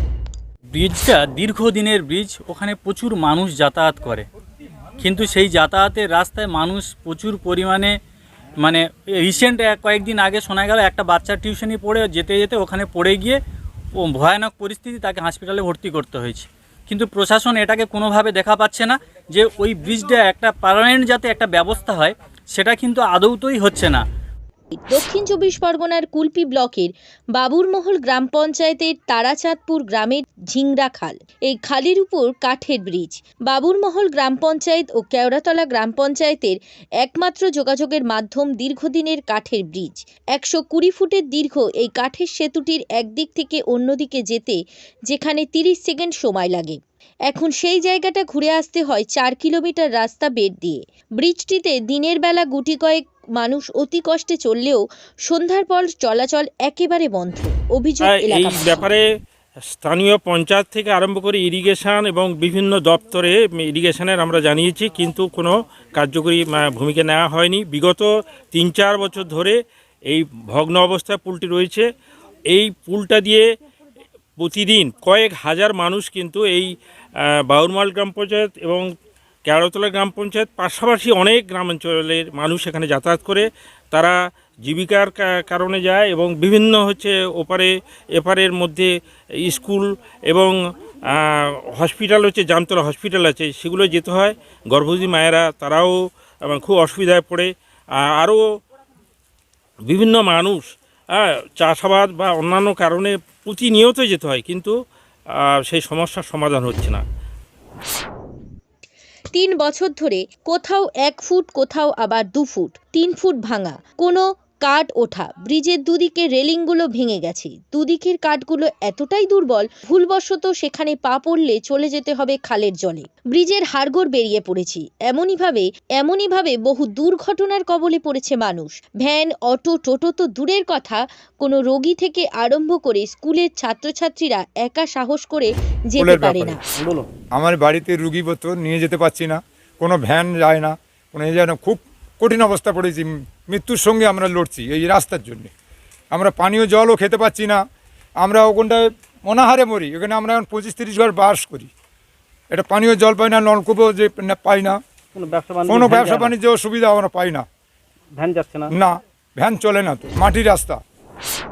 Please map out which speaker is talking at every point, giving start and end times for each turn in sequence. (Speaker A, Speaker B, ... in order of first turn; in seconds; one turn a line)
Speaker A: 0.7-4.3
Speaker A: 5.0-7.9
Speaker A: 8.6-13.4
Speaker A: 14.0-24.0
Speaker B: 24.8-58.9
Speaker C: 58.1-59.0
Speaker C: 59.8-69.6
Speaker C: 70.1-71.9
Speaker C: 72.5-73.5
Speaker C: 74.4-76.7
Speaker C: 77.5-78.8
Speaker C: 79.5-84.2
Speaker C: 84.7-88.9
Speaker C: 89.4-90.5
Speaker C: 91.1-98.4
Speaker C: 99.9-100.6
Speaker C: 101.2-104.7
Speaker C: 105.4-107.0
Speaker B: 109.3-136.6
Speaker D: 136.0-136.6
Speaker E: 136.8-137.1
Speaker D: 137.4-145.5
Speaker D: 146.1-147.6
Speaker D: 148.2-151.7
Speaker D: 152.5-154.8
Speaker E: 155.2-156.3
Speaker D: 155.7-157.4
Speaker E: 158.2-158.7
Speaker D: 158.7-160.8